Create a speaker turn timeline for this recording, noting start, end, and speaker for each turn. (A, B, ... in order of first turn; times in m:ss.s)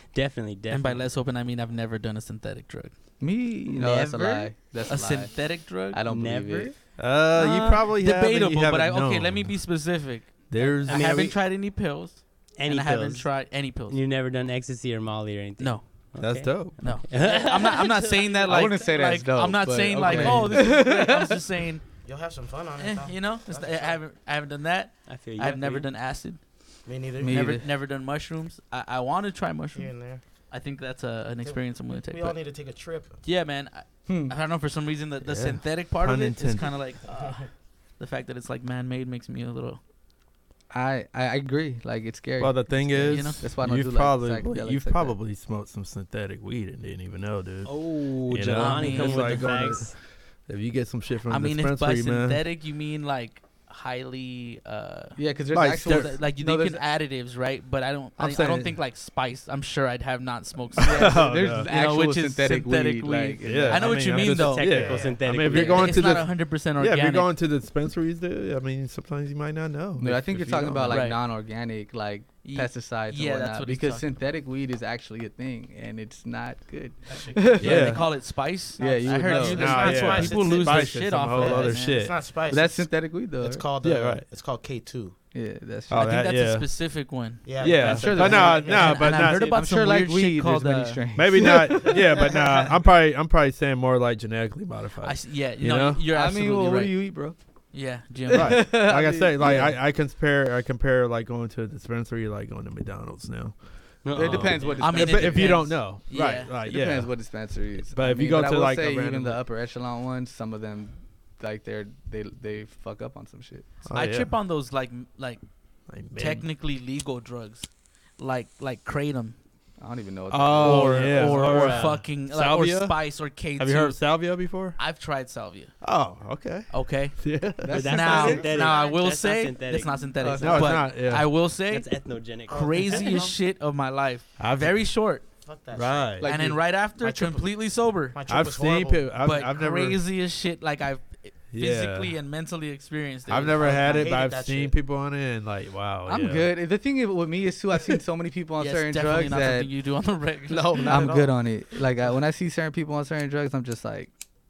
0:00.1-0:01.1 A
0:00.7-0:02.9 B
0:03.2-0:06.8 C
0:03.7-0:04.5 A
0:04.9-0:06.0 B
0:06.1-0:06.8 A
0:07.0-0:09.6 D
0:07.4-0:07.8 A
0:07.4-0:14.0 B
0:10.5-0:11.4 D
0:10.9-0:11.2 A
0:12.6-0:18.4 A
0:15.6-0:21.9 B
0:16.2-0:16.8 D
0:18.5-0:21.4 C
0:22.0-0:24.0 E
0:22.8-0:26.5 B
0:25.1-0:25.9 A
0:26.8-0:27.6 E
0:27.2-0:27.7 C
0:27.3-0:32.4 B
0:29.7-0:30.2 E
0:31.4-0:33.2 E
0:33.2-0:39.8 B
0:34.1-0:34.4 C
0:35.2-0:36.8 D
0:37.1-0:37.4 E
0:40.7-0:45.2 C
0:42.4-0:52.4 D
0:43.0-0:43.4 B
0:47.6-0:50.0 A
0:48.5-0:49.5 B
0:51.3-1:07.3 B
0:55.2-0:56.8 C
0:55.5-0:56.2 D
0:58.2-0:58.8 D
1:00.8-1:01.7 D
1:00.8-1:04.1 C
1:03.4-1:11.0 D
1:04.2-1:06.0 A
1:04.6-1:05.2 E
1:05.5-1:05.9 C
1:10.0-1:18.1 C
1:10.9-1:11.2 B
1:12.4-1:14.1 B
1:17.1-1:17.7 E
1:17.6-1:18.0 D
1:17.6-1:22.0 B
1:18.8-1:20.0 C
1:18.8-1:25.2 E
1:19.6-1:22.2 D
1:22.5-1:23.7 C
1:23.8-1:24.3 D
1:25.3-1:26.2 C
1:25.9-1:26.7 D
1:26.0-1:31.0 B
1:27.4-1:29.0 E
1:27.6-1:29.6 D
1:27.6-1:32.7 C
1:29.2-1:29.6 A
1:31.2-1:36.0 D
1:35.0-1:37.0 B
1:36.1-1:37.4 C
1:37.7-1:38.8 B
1:38.3-1:39.8 C
1:38.3-1:49.4 D
1:44.0-1:45.0 A
1:44.1-1:45.7 C
1:44.8-1:46.5 B
1:46.6-1:53.7 C
1:53.9-1:54.3 D
1:53.9-1:55.4 B
1:55.9-1:56.5 D
1:56.1-1:59.4 B
1:59.8-2:01.4 C
2:00.3-2:04.8 D
2:00.6-2:05.7 B
2:01.3-2:02.0 A
2:05.8-2:07.8 D
2:06.7-2:07.2 B
2:07.6-2:08.8 C
2:07.7-2:15.2 B
2:07.7-2:10.4 A
2:10.2-2:10.8 C
2:10.4-2:11.3 D
2:11.7-2:13.3 A
2:12.5-2:13.3 E
2:14.4-2:14.9 D
2:15.4-2:16.2 E
2:15.7-2:16.3 D
2:16.2-2:16.6 C
2:16.2-2:18.2 B
2:16.9-2:17.5 E
2:18.1-2:19.1 E
2:18.3-2:20.0 D
2:19.2-2:24.1 B
2:21.5-2:22.2 D
2:23.3-2:26.5 D
2:23.4-2:24.8 E
2:26.1-2:29.7 C
2:28.6-2:31.2 B
2:30.5-2:31.3 E
2:30.8-2:34.1 C